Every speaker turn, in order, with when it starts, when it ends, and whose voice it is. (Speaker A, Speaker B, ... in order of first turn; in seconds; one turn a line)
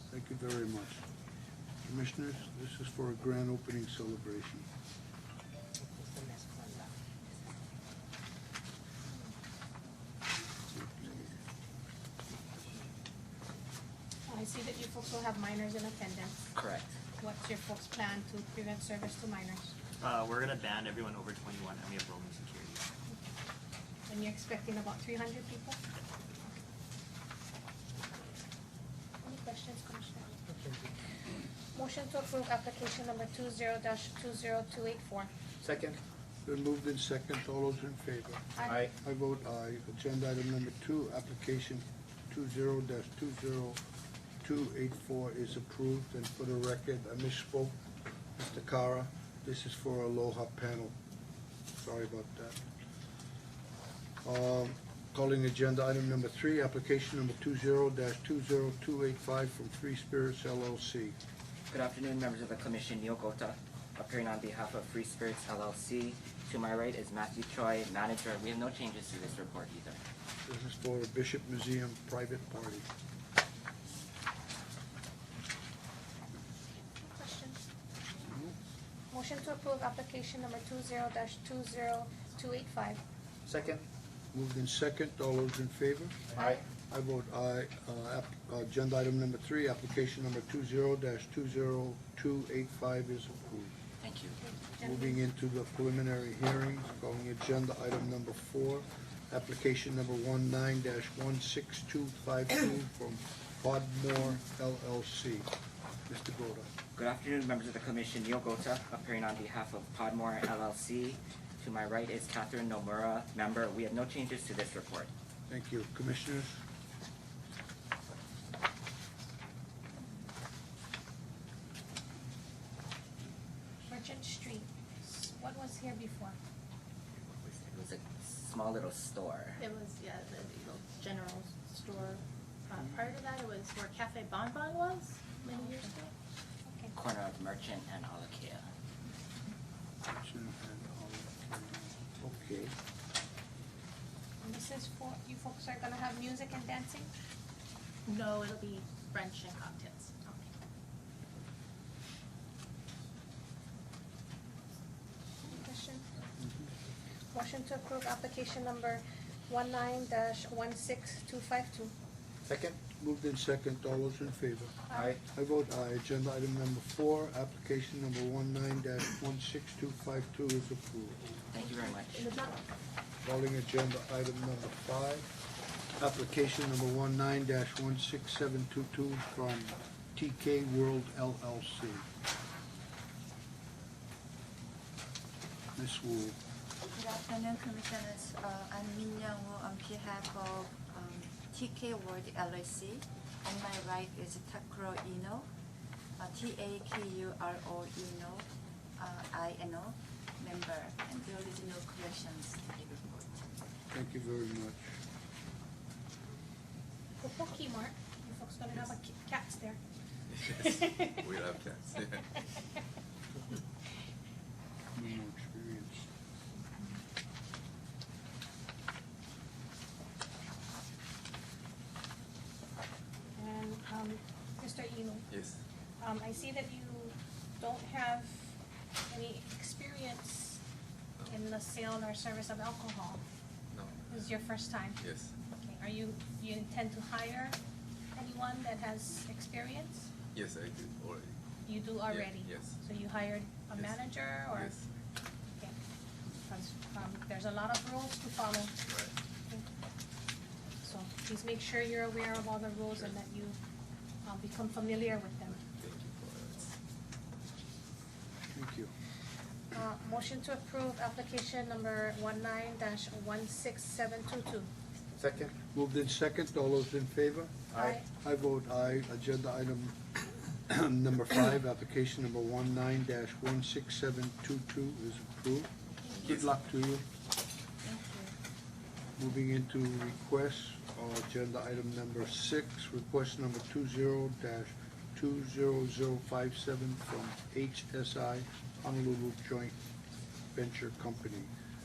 Speaker A: 0.1-1.0
Speaker A: 1.9-4.7
Speaker B: 14.3-16.4
Speaker C: 16.5-16.9
Speaker B: 17.2-19.7
Speaker D: 20.0-22.8
Speaker B: 24.1-25.8
Speaker B: 29.2-30.4
Speaker E: 30.5-30.8
Speaker B: 31.8-35.3
Speaker E: 35.6-36.0
Speaker A: 36.5-43.8
Speaker B: 38.6-38.9
Speaker E: 38.7-38.9
Speaker A: 44.4-47.8
Speaker A: 48.4-51.0
Speaker A: 51.8-52.6
Speaker A: 54.2-61.2
Speaker C: 61.7-70.0
Speaker A: 70.5-72.9
Speaker B: 77.0-77.6
Speaker A: 78.3-78.5
Speaker B: 79.1-83.0
Speaker E: 83.5-83.8
Speaker A: 84.3-86.3
Speaker A: 86.9-93.7
Speaker C: 94.0-94.4
Speaker B: 94.4-95.1
Speaker A: 94.8-105.5
Speaker A: 106.1-106.7
Speaker C: 107.0-115.1
Speaker A: 115.5-116.6
Speaker B: 123.9-126.4
Speaker C: 127.3-129.6
Speaker F: 129.6-136.1
Speaker B: 135.5-135.9
Speaker B: 136.7-136.9
Speaker C: 136.9-138.7
Speaker A: 140.1-142.7
Speaker B: 144.4-147.1
Speaker F: 148.1-150.3
Speaker B: 155.4-156.1
Speaker A: 156.4-156.7
Speaker B: 157.3-161.9
Speaker E: 162.5-162.8
Speaker A: 163.0-171.2
Speaker C: 171.5-172.3
Speaker F: 172.2-172.6
Speaker A: 173.2-175.3
Speaker A: 176.0-182.1
Speaker A: 185.8-186.4
Speaker G: 186.9-195.5
Speaker G: 196.2-198.5
Speaker G: 199.0-203.4
Speaker A: 203.9-204.9
Speaker B: 207.2-209.8
Speaker H: 210.4-212.4
Speaker B: 210.5-211.3
Speaker A: 214.9-216.1
Speaker B: 223.4-225.3
Speaker H: 225.3-225.6
Speaker B: 226.0-228.4
Speaker B: 229.1-230.6
Speaker B: 231.3-233.2
Speaker H: 233.7-234.1
Speaker B: 234.1-235.0
Speaker H: 235.0-235.3
Speaker B: 235.6-237.6
Speaker B: 238.2-240.1
Speaker H: 240.3-241.4
Speaker B: 241.7-244.8
Speaker H: 242.1-242.8
Speaker H: 243.8-244.9
Speaker B: 246.4-248.8
Speaker H: 248.9-249.1
Speaker B: 250.8-253.6
Speaker B: 254.2-255.6
Speaker H: 255.7-256.7
Speaker A: 258.5-258.9
Speaker B: 259.7-264.7
Speaker E: 265.2-265.5
Speaker A: 265.7-270.0
Speaker B: 267.8-268.1
Speaker A: 270.7-275.7
Speaker B: 276.1-276.4
Speaker A: 276.2-277.1
Speaker G: 277.8-278.3
Speaker A: 279.2-289.8
Speaker A: 290.5-291.5